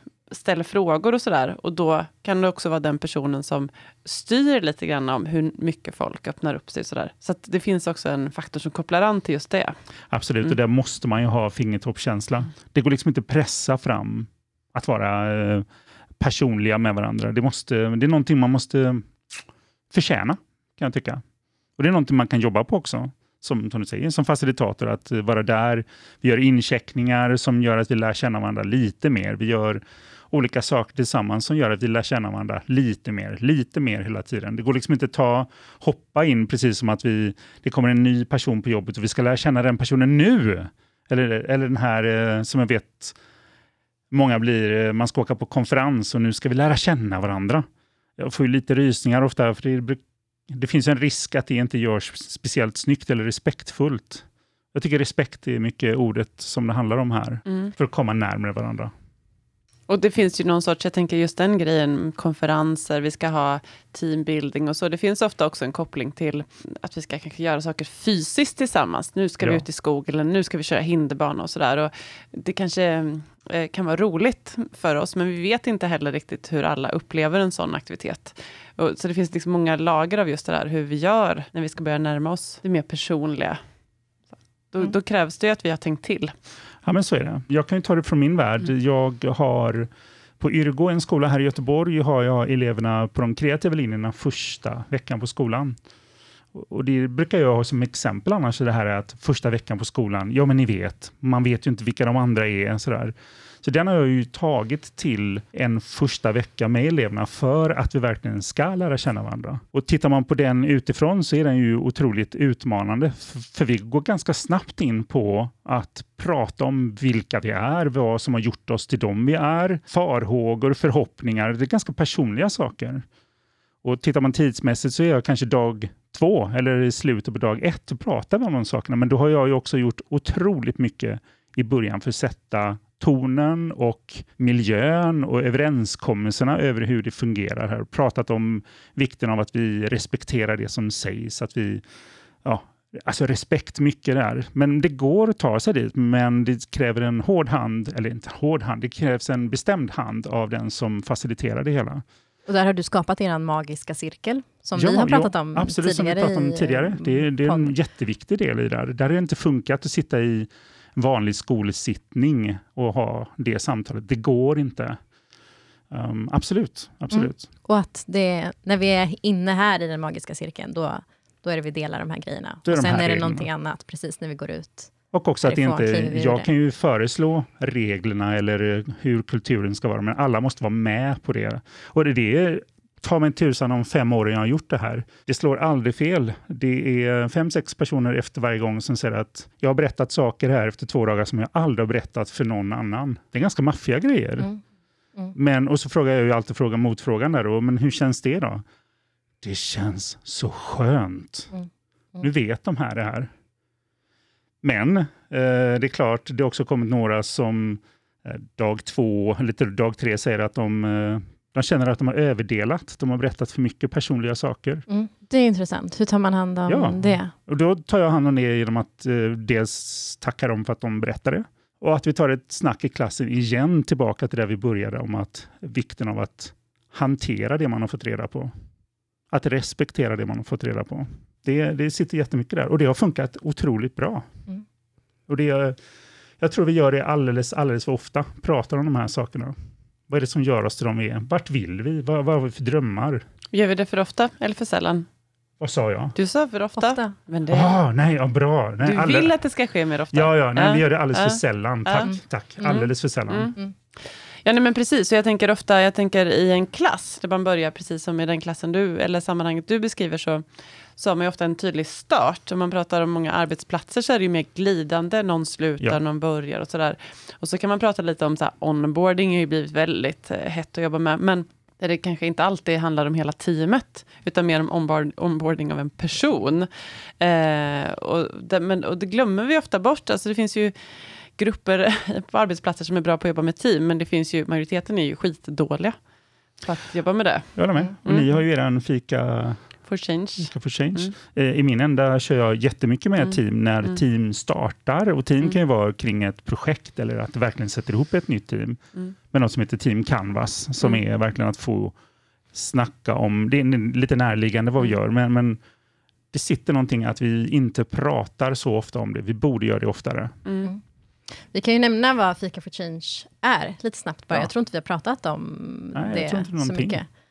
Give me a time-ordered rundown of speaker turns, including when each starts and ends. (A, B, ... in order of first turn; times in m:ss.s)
0:00.3-0:09.7 A
0:10.1-0:15.6 B
0:16.2-0:19.4 B
0:19.9-0:21.2 B
0:21.8-0:43.2 B
0:44.1-0:47.6 B
0:48.2-0:58.9 B
0:59.9-1:23.6 A
1:24.7-1:26.3 A
1:26.8-1:35.8 B
1:36.5-2:03.0 B
2:03.8-2:21.8 B
2:22.4-2:32.0 B
2:32.5-2:37.7 C
2:34.8-2:45.0 B
2:45.9-2:47.5 B
2:47.1-2:54.9 C
2:52.6-2:53.5 B
2:55.1-3:14.6 B
2:55.4-2:56.5 C
3:15.3-3:18.6 B
3:19.4-3:21.5 B
3:22.2-3:23.3 B
3:24.6-3:34.8 B
3:34.9-3:37.3 C
3:36.7-3:48.5 B
3:49.3-3:54.3 B
3:55.3-3:55.8 B
3:56.4-3:59.5 B
4:00.1-4:03.2 B
4:03.5-4:05.0 A
4:05.6-4:06.1 B
4:06.1-4:07.8 A
4:06.8-4:07.1 C
4:07.5-4:09.4 B
4:08.8-4:13.5 A
4:10.1-4:13.5 B
4:14.4-4:20.4 A
4:21.0-4:46.0 A
4:46.6-4:48.3 A
4:47.6-4:49.6 B
4:49.9-4:51.1 A
4:50.4-4:58.8 B
4:59.3-5:02.0 B
5:02.5-5:05.6 B
5:06.3-5:10.3 B
5:10.4-5:10.7 A
5:11.5-5:17.0 C
5:15.9-5:17.0 B